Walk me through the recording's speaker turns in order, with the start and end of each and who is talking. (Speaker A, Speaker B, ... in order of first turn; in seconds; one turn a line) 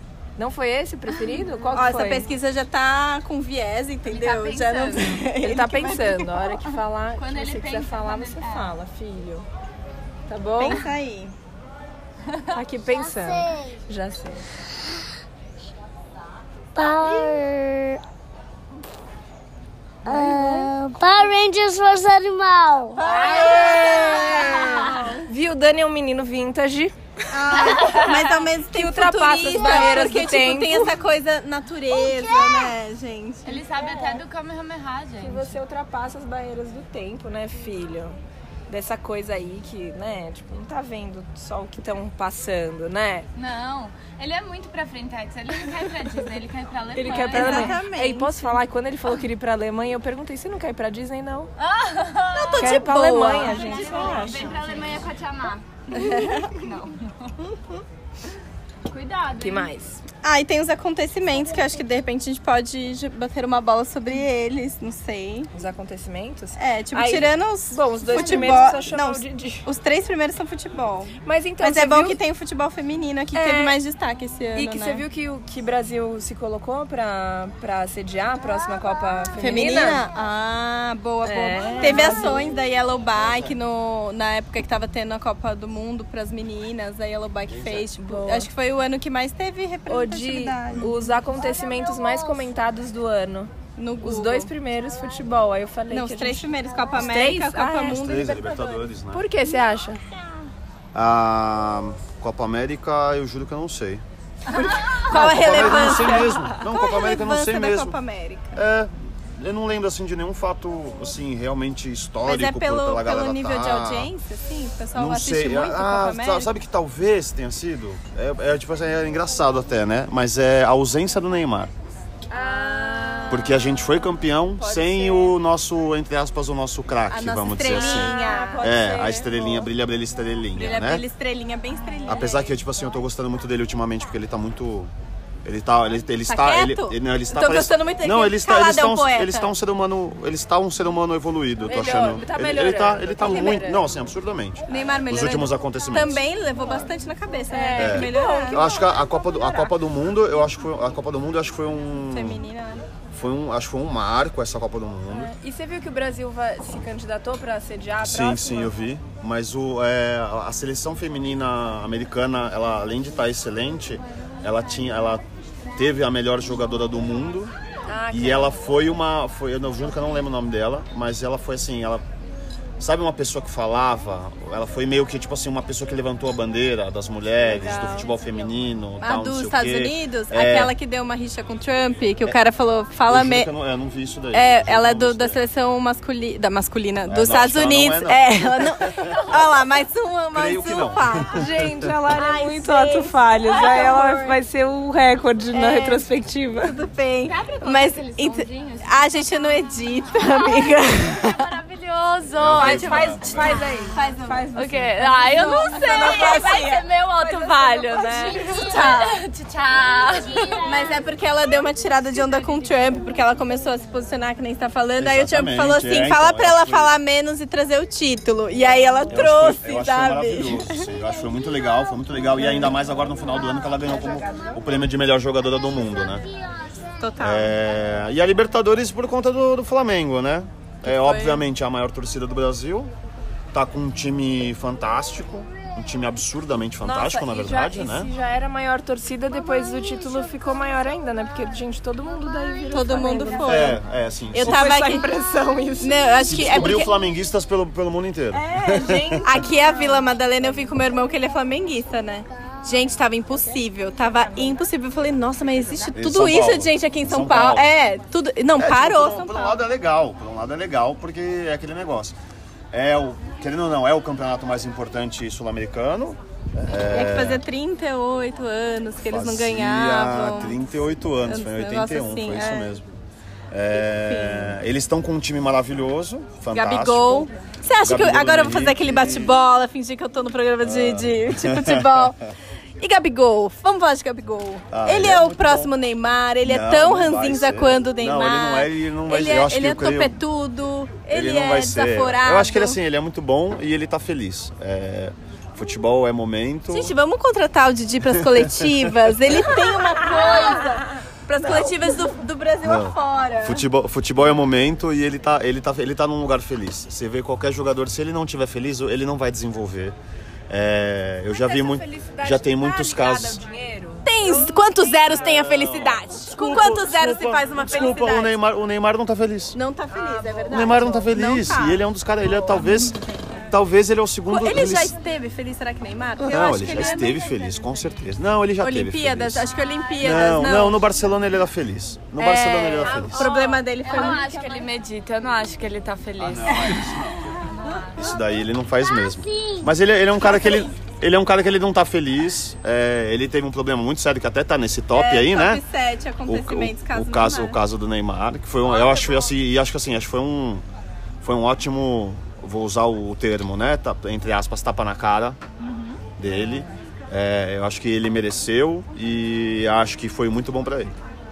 Speaker A: 0.4-2.3
Speaker B: 1.7-6.6
Speaker C: 4.0-5.2
Speaker A: 5.4-9.5
Speaker C: 7.2-8.7
Speaker A: 10.3-10.8
Speaker B: 10.6-11.3
Speaker C: 12.3-12.5
Speaker A: 12.5-14.5
Speaker D: 13.0-13.8
Speaker D: 16.8-18.0
Speaker D: 20.1-23.0
Speaker A: 20.1-20.7
Speaker B: 23.0-25.2
Speaker A: 23.0-26.9
Speaker B: 27.3-33.6
Speaker C: 27.6-28.3
Speaker A: 28.7-30.9
Speaker D: 31.9-32.8
Speaker C: 33.5-35.5
Speaker A: 33.8-34.2
Speaker A: 35.2-38.2
Speaker A: 38.7-43.3
Speaker C: 43.4-47.8
Speaker A: 47.0-51.5
Speaker B: 47.1-48.5
Speaker C: 51.6-57.3
Speaker B: 52.3-55.0
Speaker A: 52.6-54.6
Speaker B: 55.9-56.6
Speaker B: 57.4-57.8
Speaker C: 58.9-59.7
Speaker A: 59.4-60.0
Speaker B: 60.2-65.5
Speaker A: 65.5-69.7
Speaker B: 66.6-75.0
Speaker A: 71.2-72.2
Speaker A: 73.3-73.8
Speaker A: 74.5-80.0
Speaker B: 79.4-90.9
Speaker A: 81.2-82.4
Speaker E: 87.5-87.9
Speaker A: 88.0-88.5
Speaker A: 89.9-93.5
Speaker B: 93.8-94.5
Speaker A: 94.0-100.0
Speaker B: 95.9-98.5
Speaker E: 97.9-99.3
Speaker E: 100.9-104.0
Speaker B: 104.5-108.6
Speaker E: 105.0-108.0
Speaker E: 108.5-114.1
Speaker B: 112.2-116.5
Speaker E: 115.0-121.7
Speaker A: 122.3-123.8
Speaker E: 123.3-131.1
Speaker A: 124.6-125.3
Speaker B: 127.1-128.7
Speaker A: 127.7-129.7
Speaker B: 130.5-132.6
Speaker E: 132.1-134.9
Speaker E: 135.4-146.2
Speaker B: 136.3-139.5
Speaker A: 141.7-143.9
Speaker B: 144.7-148.7
Speaker A: 147.5-148.8
Speaker E: 147.8-152.4
Speaker B: 152.1-152.8
Speaker E: 153.1-155.3
Speaker A: 155.1-158.7
Speaker E: 158.0-165.2
Speaker E: 165.8-167.5
Speaker A: 167.9-168.6
Speaker E: 168.1-172.0
Speaker E: 172.8-180.7
Speaker A: 177.4-178.4
Speaker B: 179.0-183.5
Speaker E: 183.1-185.4
Speaker B: 184.3-191.4
Speaker E: 187.1-189.2
Speaker E: 190.3-191.9
Speaker A: 191.3-196.8
Speaker B: 192.1-194.4
Speaker B: 195.5-196.1
Speaker B: 196.6-201.5
Speaker C: 197.2-199.6
Speaker C: 201.2-203.7
Speaker E: 202.4-203.7
Speaker A: 202.5-208.8
Speaker B: 202.8-206.8
Speaker C: 204.5-210.6
Speaker B: 208.1-209.1
Speaker B: 210.5-220.9
Speaker E: 215.0-216.9
Speaker E: 219.1-226.3
Speaker A: 223.8-224.6
Speaker B: 227.0-227.5
Speaker E: 227.2-232.9
Speaker B: 230.9-231.4
Speaker E: 233.5-238.1
Speaker A: 236.8-243.8
Speaker B: 242.7-243.8
Speaker E: 243.4-244.7
Speaker B: 244.3-245.1
Speaker A: 244.4-246.7
Speaker B: 245.8-247.0
Speaker E: 246.2-249.5
Speaker A: 248.3-249.7
Speaker B: 249.2-259.6
Speaker E: 255.9-257.7
Speaker E: 258.6-262.1
Speaker E: 262.7-267.4
Speaker B: 266.8-270.6
Speaker E: 269.1-272.9
Speaker B: 271.3-272.7
Speaker E: 273.5-279.3
Speaker B: 273.9-274.6
Speaker B: 276.5-282.2
Speaker E: 280.6-282.1
Speaker B: 282.8-292.8
Speaker E: 284.7-285.7
Speaker E: 286.4-290.2
Speaker E: 291.1-296.9
Speaker B: 296.7-303.6
Speaker E: 298.2-299.4
Speaker E: 302.6-310.0
Speaker E: 310.5-313.4
Speaker A: 311.3-315.6
Speaker B: 314.1-318.4
Speaker E: 315.0-319.6
Speaker B: 319.5-321.9
Speaker A: 319.9-320.7
Speaker E: 320.5-323.0
Speaker B: 322.4-323.1
Speaker E: 323.5-324.9
Speaker B: 324.3-327.5
Speaker E: 326.3-329.4
Speaker B: 328.6-330.8
Speaker E: 330.0-333.3
Speaker B: 332.2-334.6
Speaker C: 333.2-336.9
Speaker A: 333.8-334.6
Speaker E: 336.2-345.6
Speaker C: 337.5-338.0
Speaker D: 338.7-339.7
Speaker B: 344.9-347.6
Speaker E: 346.3-350.6
Speaker E: 351.2-355.4
Speaker E: 356.2-360.9